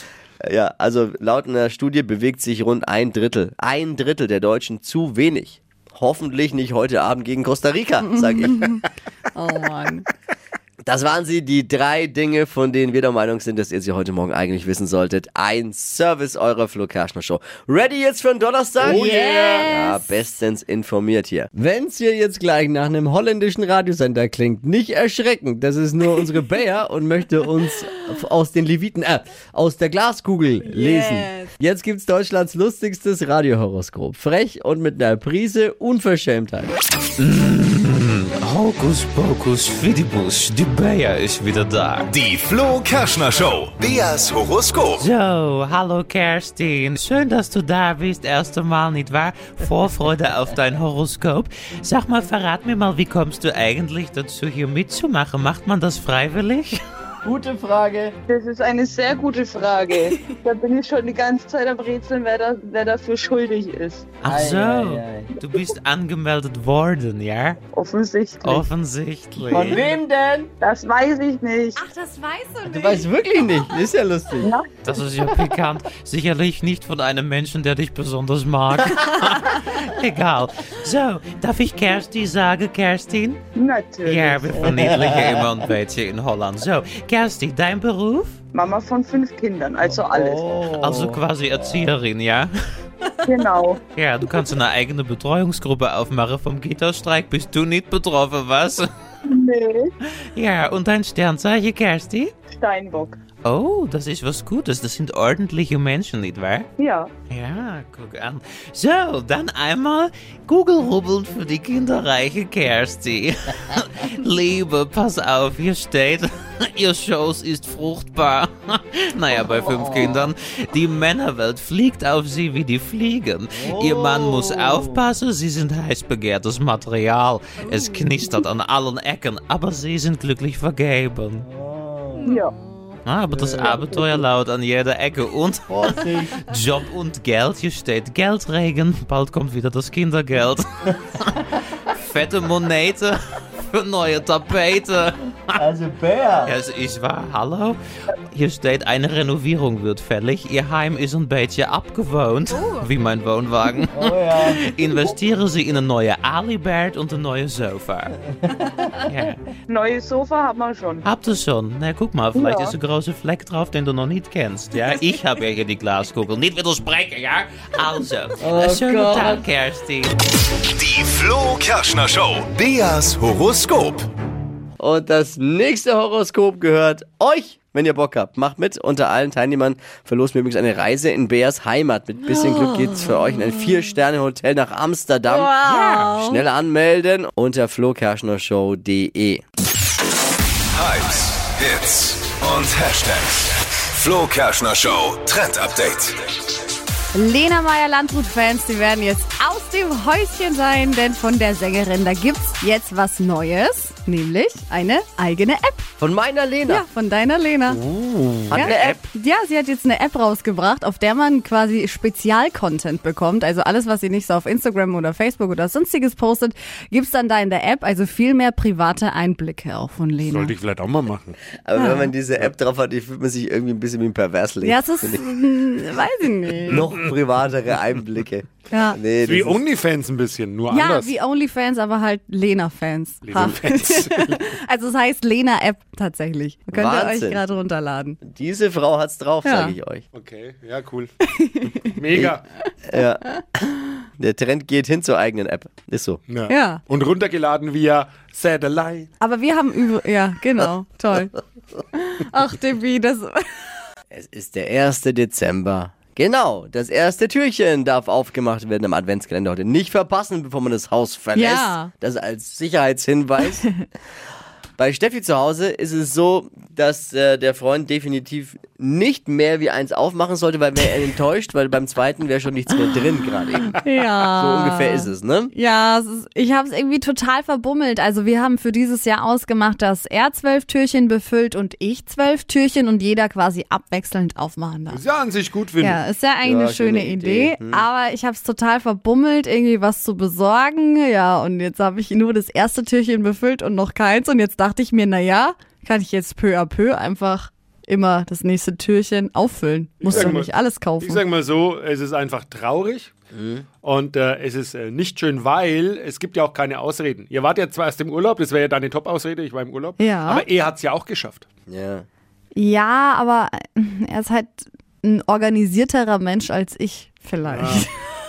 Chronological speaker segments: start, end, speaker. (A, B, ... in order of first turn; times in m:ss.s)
0:00.4-0:08.6 A
0:08.0-0:10.1 B
0:10.8-0:36.8 A
0:18.8-0:19.7 C
0:18.8-0:20.0 B
0:30.6-0:31.5 B
0:37.2-0:42.1 D
0:42.1-0:45.0 E
0:45.0-0:56.8 D
0:57.2-0:58.2 A
0:58.3-1:04.1 F
1:04.2-1:07.6 D
1:04.2-1:05.3 A
1:07.7-1:08.7 F
1:08.4-1:09.8 D
1:09.5-1:10.5 A
1:10.6-1:11.8 F
1:11.8-1:13.1 B
1:12.7-1:14.5 A
1:14.4-1:14.7 F
1:14.8-1:23.4 D
1:23.6-1:24.6 F
1:24.0-1:28.4 D
1:24.6-1:25.4 A
1:28.5-1:30.4 F
1:29.8-1:31.9 A
1:30.8-1:32.5 D
1:33.2-1:33.8 F
1:33.9-1:38.9 D
1:39.3-1:39.9 F
1:40.4-1:42.3 D
1:42.5-1:43.2 F
1:43.4-1:46.7 D
1:46.8-1:47.1 F
1:47.3-2:11.4 D
1:59.3-2:00.3 A
2:03.5-2:05.0 A
2:07.7-2:08.3 B
2:11.4-2:12.3 A
2:12.2-2:13.0 B
2:12.3-2:12.5 F
2:13.1-2:15.8 D
2:13.3-2:14.0 A
2:15.7-2:16.4 A
2:16.4-2:25.6 D
2:25.6-2:26.6 A
2:26.4-2:27.8 D
2:28.3-2:38.2 D
2:32.5-2:32.9 B
2:33.9-2:35.1 A
2:38.4-2:38.8 A
2:39.0-2:39.4 D
2:39.7-2:41.1 F
2:41.0-2:50.2 D
2:42.4-2:42.8 F
2:48.4-2:49.5 A
2:50.7-2:54.1 E
2:54.8-3:09.4 A
3:02.3-3:03.6 B
3:05.3-3:06.4 B
3:05.7-3:06.1 D
3:10.7-3:16.2 E
3:17.2-3:25.9 B
3:26.0-3:26.8 A
3:26.7-3:27.8 B
3:27.9-3:28.7 C
3:28.5-3:29.1 A
3:28.5-3:40.5 B
3:40.2-3:41.4 C
3:41.6-3:45.3 A
3:41.8-3:42.1 B
3:44.6-3:46.9 B
3:46.7-3:49.6 A
3:48.7-3:49.0 B
3:49.2-3:51.2 C
3:50.7-3:58.2 B
3:53.3-3:54.4 C
3:56.7-3:57.4 A
3:58.2-4:00.0 A
3:59.4-3:59.8 B
4:00.1-4:01.1 C
4:01.3-4:02.0 B
4:02.0-4:02.4 C
4:02.9-4:06.2 A
4:06.3-4:09.1 C
4:06.5-4:06.8 B
4:09.2-4:11.4 B
4:11.9-4:13.4 B
4:14.1-4:23.7 A
4:21.4-4:21.9 B
4:24.8-4:33.8 A
4:33.7-4:45.0 B
4:34.4-4:35.5 A
4:44.9-4:46.0 C
4:45.8-5:01.2 B
4:46.4-4:47.9 A
5:00.0-5:03.1 C
5:00.1-5:00.4 A
5:03.3-5:03.7 A
5:03.8-5:11.5 C
5:10.0-5:10.4 B
5:11.7-5:12.1 A
5:12.6-5:18.0 B
5:17.5-5:17.9 C